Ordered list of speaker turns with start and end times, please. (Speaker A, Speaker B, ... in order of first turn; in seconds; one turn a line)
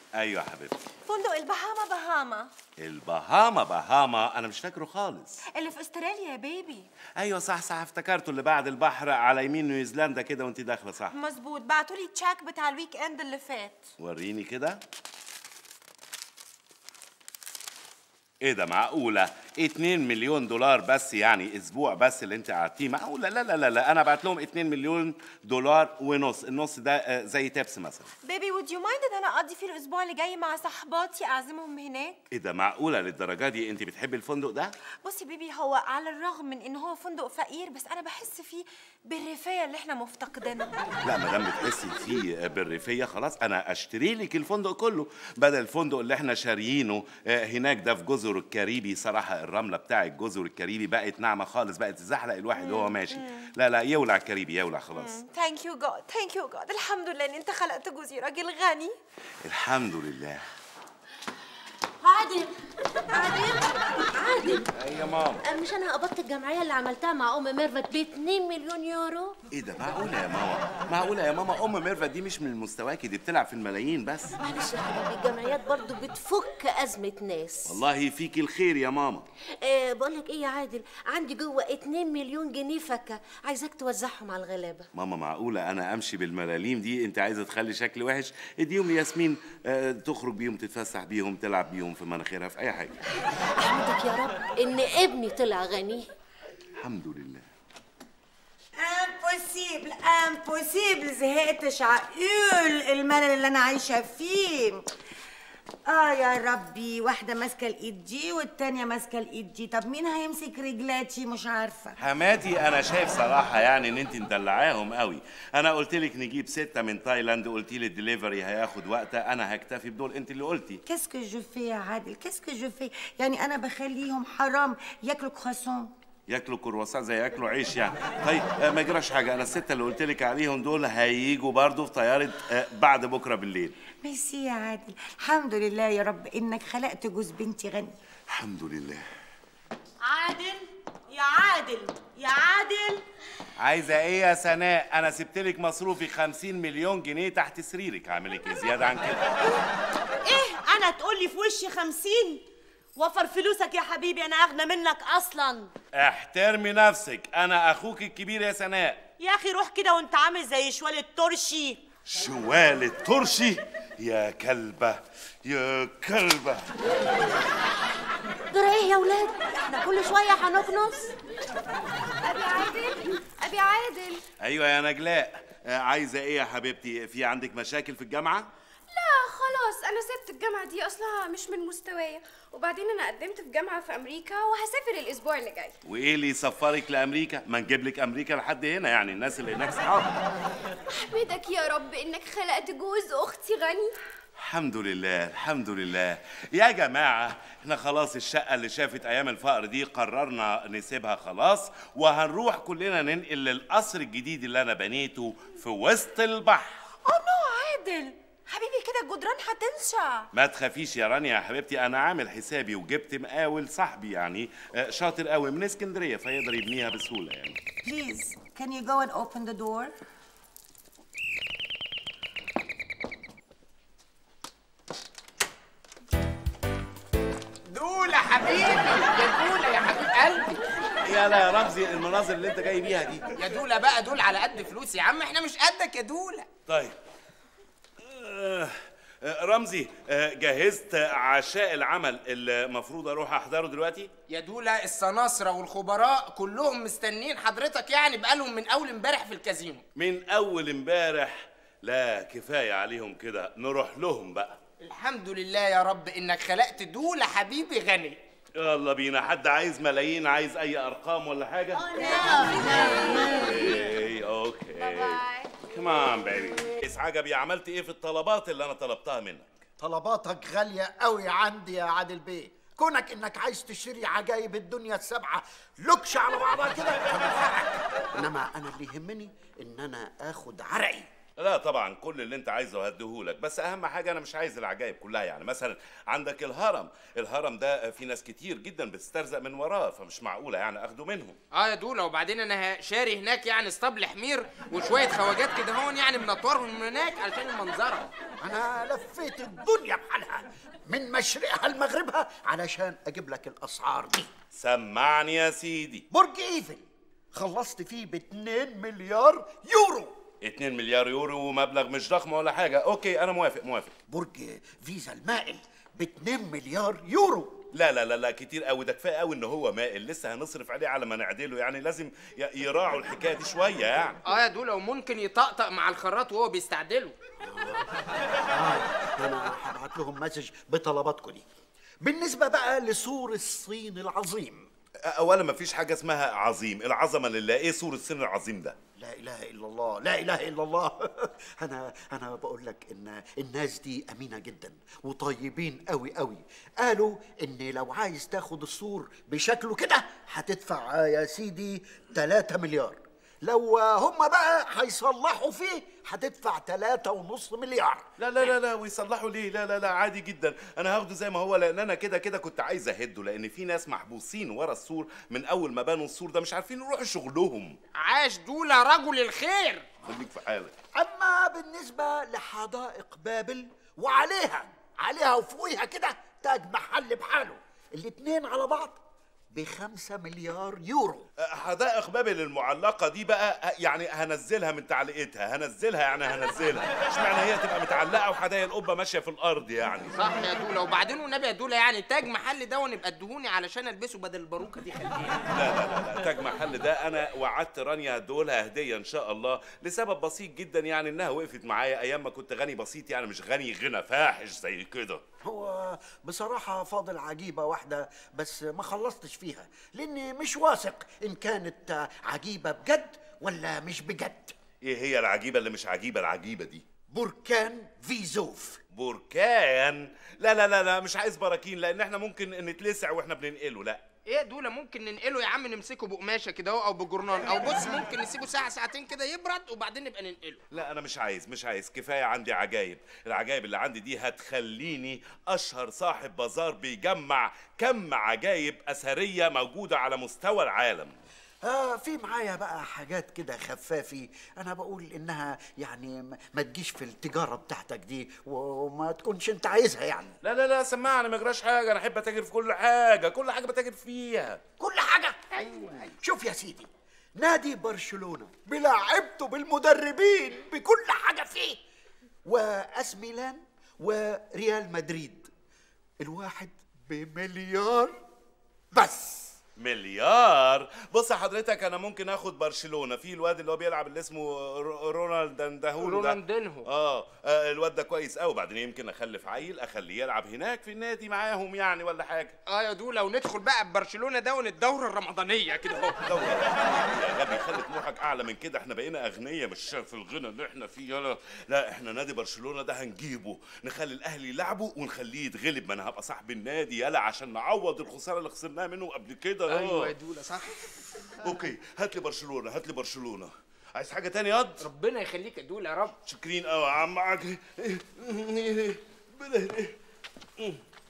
Speaker A: 0.1-0.8
Speaker B: 1.1-2.5
Speaker A: 2.8-5.4
Speaker B: 5.5-6.9
Speaker A: 7.2-11.1
Speaker B: 11.1-13.8
Speaker A: 14.0-14.8
Speaker A: 18.4-28.1
Speaker B: 28.2-32.2
Speaker A: 32.3-34.7
Speaker B: 35.0-40.7
Speaker A: 41.0-55.2
Speaker B: 52.5-53.5
Speaker B: 54.9-58.9
Speaker A: 59.4-60.4
Speaker C: 62.0-62.5
Speaker C: 63.1-64.7
Speaker A: 64.7-65.4
Speaker C: 65.4-69.3
Speaker A: 69.5-74.3
Speaker C: 74.4-77.8
Speaker A: 77.7-79.2
Speaker C: 79.6-84.9
Speaker A: 84.9-93.0
Speaker C: 93.5-96.1
Speaker A: 96.8-97.4
Speaker D: 98.8-104.8
Speaker D: 105.9-111.9
Speaker A: 112.0-120.8
Speaker D: 120.8-125.9
Speaker A: 126.3-133.7
Speaker D: 134.0-137.9
Speaker A: 138.3-139.0
Speaker E: 140.0-143.0
Speaker A: 143.6-149.4
Speaker E: 150.2-152.4
Speaker E: 152.9-155.7
Speaker A: 155.9-159.0
Speaker E: 159.2-161.8
Speaker A: 162.1-166.7
Speaker C: 168.5-171.1
Speaker F: 172.2-174.2
Speaker A: 174.4-178.5
Speaker F: 178.9-185.7
Speaker A: 185.8-190.2
Speaker F: 190.9-193.9
Speaker A: 194.4-206.7
Speaker B: 207.0-210.3
Speaker A: 210.3-217.6
Speaker D: 217.8-219.9
Speaker G: 227.7-230.6
Speaker A: 231.0-233.3
Speaker G: 233.4-236.5
Speaker A: 236.7-236.9
Speaker A: 238.0-244.1
Speaker G: 244.3-249.8
Speaker A: 249.9-254.6
Speaker G: 254.8-258.2
Speaker A: 258.6-261.9
Speaker E: 262.0-262.8
Speaker C: 262.0-263.4
Speaker D: 262.3-262.9
Speaker A: 263.2-269.4
Speaker F: 264.8-265.6
Speaker H: 269.8-281.1
Speaker A: 281.4-291.4
Speaker G: 291.5-298.1
Speaker H: 298.4-304.3
Speaker A: 304.5-306.0
Speaker H: 306.1-310.1
Speaker A: 310.4-313.9
Speaker H: 314.1-317.6
Speaker A: 317.7-324.2
Speaker G: 324.2-327.1
Speaker H: 328.5-331.4
Speaker H: 332.0-334.7
Speaker A: 335.0-338.8
Speaker H: 339.0-358.0
Speaker A: 358.2-367.8
Speaker G: 368.0-369.9
Speaker A: 370.0-370.7
Speaker H: 370.9-379.0
Speaker H: 379.5-381.2
Speaker A: 381.4-390.2
Speaker G: 390.1-395.4
Speaker A: 395.5-405.2
Speaker H: 405.4-414.5
Speaker A: 414.8-416.8
Speaker H: 417.1-418.8
Speaker A: 418.9-424.0
Speaker G: 424.3-430.6
Speaker A: 430.7-441.1
Speaker H: 441.6-450.3
Speaker A: 450.4-454.6
Speaker H: 454.8-461.8
Speaker H: 462.4-465.5
Speaker H: 466.2-468.2
Speaker H: 468.9-469.6
Speaker A: 469.8-482.5
Speaker G: 476.0-476.9
Speaker G: 482.7-486.1
Speaker A: 486.2-500.1
Speaker G: 499.7-500.9
Speaker A: 501.4-504.8
Speaker G: 504.8-506.1
Speaker A: 506.2-509.9